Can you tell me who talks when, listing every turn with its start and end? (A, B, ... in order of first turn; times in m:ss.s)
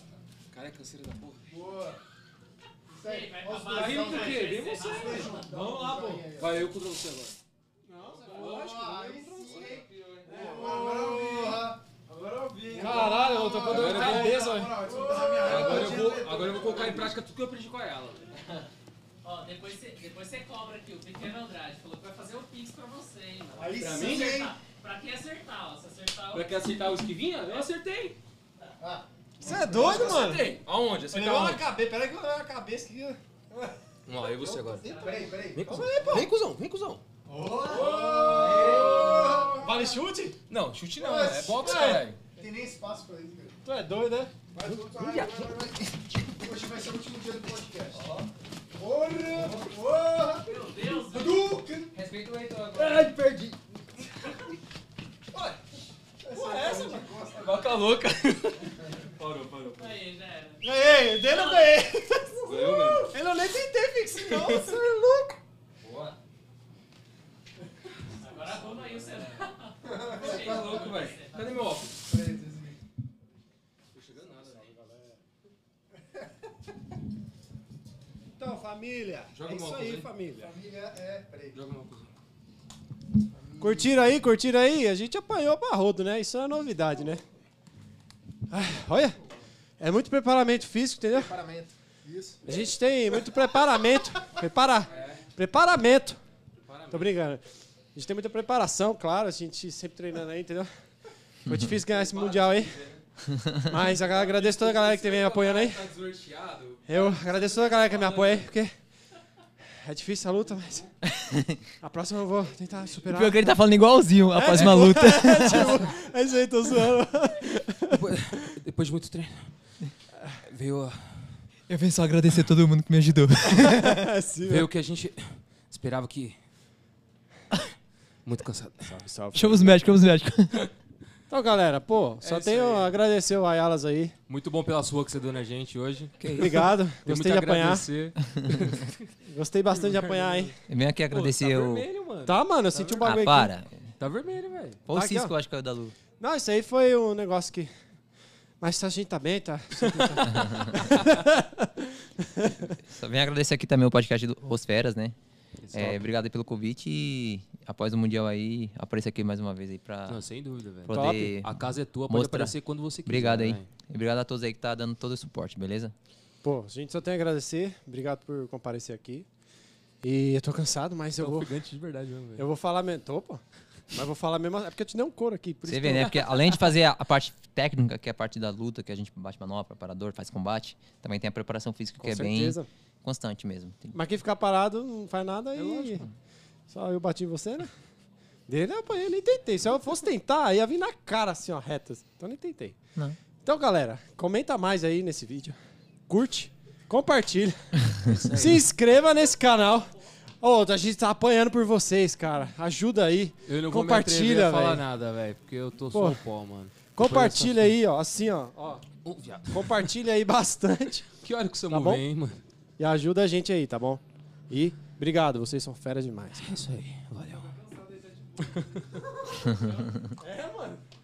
0:00.5-0:01.5 A
0:01.5-0:02.0 B
0:02.9-0:06.7 B
0:03.0-0:05.5 C
0:03.7-0:07.4 A
0:05.9-0:06.2 D
0:07.9-0:08.5 E
0:07.9-0:17.1 B
0:08.3-0:11.7 A
0:10.3-0:11.4 E
0:12.7-0:14.6 A
0:12.7-0:15.8 E
0:15.2-0:18.3 A
0:19.2-0:26.4 C
0:23.5-0:24.5 B
0:23.7-0:24.4 A
0:26.3-0:28.2 A
0:28.8-0:30.3 B
0:29.4-0:30.5 E
0:29.5-0:31.7 A
0:31.1-0:33.2 E
0:34.0-0:37.0 A
0:34.4-0:36.3 B
0:34.8-0:35.6 C
0:35.6-0:36.3 E
0:37.2-0:40.0 B
0:37.7-0:39.1 A
0:37.7-0:40.4 E
0:38.2-0:38.6 C
0:38.5-0:39.0 D
0:40.5-0:42.2 A
0:41.0-0:43.6 B
0:41.6-0:42.1 E
0:43.6-0:44.3 E
0:44.5-0:48.0 B
0:44.8-0:45.5 A
0:45.5-0:45.8 D
0:47.9-0:48.2 D
0:48.7-0:51.9 B
0:49.3-0:49.6 A
0:50.4-0:51.6 C
0:51.9-0:53.2 D
0:52.7-0:53.2 A
0:55.3-0:55.6 B
0:56.2-0:57.8 B
0:56.3-0:57.2 E
0:57.3-1:00.0 A
0:59.8-1:00.6 C
1:00.6-1:05.4 E
1:01.2-1:01.8 C
1:02.4-1:03.1 B
1:02.4-1:03.2 A
1:04.1-1:04.7 A
1:04.3-1:04.7 B
1:05.8-1:06.1 D
1:08.2-1:11.6 C
1:09.8-1:10.9 B
1:10.1-1:12.0 A
1:12.1-1:12.8 B
1:13.9-1:14.8 A
1:14.2-1:14.9 B
1:18.4-1:20.5 E
1:19.3-1:20.1 A
1:20.3-1:21.6 B
1:21.5-1:22.1 A
1:23.3-1:24.1 B
1:23.6-1:27.2 E
1:28.5-1:29.2 E
1:29.8-1:31.4 E
1:31.1-1:32.4 B
1:32.4-1:36.2 E
1:34.9-1:35.2 A
1:36.6-1:37.1 A
1:36.9-1:37.4 E
1:37.9-1:40.7 E
1:41.4-1:42.8 E
1:41.8-1:43.0 A
1:43.6-1:45.9 E
1:43.7-1:48.5 A
1:46.8-1:48.7 E
1:49.7-1:50.9 E
1:51.1-1:51.6 D
1:51.8-1:53.5 E
1:53.1-1:55.9 D
1:54.3-1:58.4 E
1:54.5-1:55.5 A
1:57.9-1:59.5 A
2:00.4-2:01.4 A
2:01.7-2:04.0 D
2:03.5-2:04.7 E
2:04.5-2:06.4 A
2:08.2-2:08.9 A
2:08.8-2:09.9 E
2:09.3-2:10.6 D
2:11.3-2:14.1 E
2:12.2-2:13.0 A
2:14.3-2:19.1 A
2:16.2-2:16.5 D
2:16.4-2:17.9 E
2:18.3-2:18.7 D
2:19.2-2:20.5 E
2:19.8-2:20.6 A
2:20.7-2:21.8 D
2:21.1-2:23.2 A
2:22.2-2:23.5 E
2:23.0-2:23.7 D
2:24.0-2:24.8 A
2:24.9-2:25.9 D
2:24.9-2:25.3 E
2:26.2-2:27.7 E
2:28.6-2:32.8 E
2:29.7-2:31.0 A
2:30.3-2:30.7 D
2:32.8-2:35.2 D
2:35.6-2:36.1 A
2:35.7-2:40.2 D
2:40.1-2:43.6 A
2:40.8-2:41.6 D
2:40.9-2:41.3 E
2:42.1-2:45.9 D
2:46.4-2:49.2 E
2:50.0-2:51.5 E
2:51.2-2:52.4 A
2:52.4-2:56.2 E
2:55.6-3:04.0 D
3:02.0-3:02.7 E
3:03.9-3:06.0 E
3:05.5-3:06.0 A
3:06.7-3:07.7 E
3:08.5-3:12.8 E
3:13.4-3:15.6 E
3:16.1-3:24.9 E
3:18.0-3:18.6 A
3:23.4-3:27.7 A
3:25.9-3:26.2 E
3:26.9-3:28.8 E
3:29.0-3:29.9 A
3:29.5-3:31.1 E
3:31.2-3:32.4 A
3:31.7-3:32.0 E
3:32.8-3:36.6 E
3:36.4-3:37.6 A
3:38.1-3:38.6 B
3:39.4-3:39.9 A
3:40.2-3:40.8 E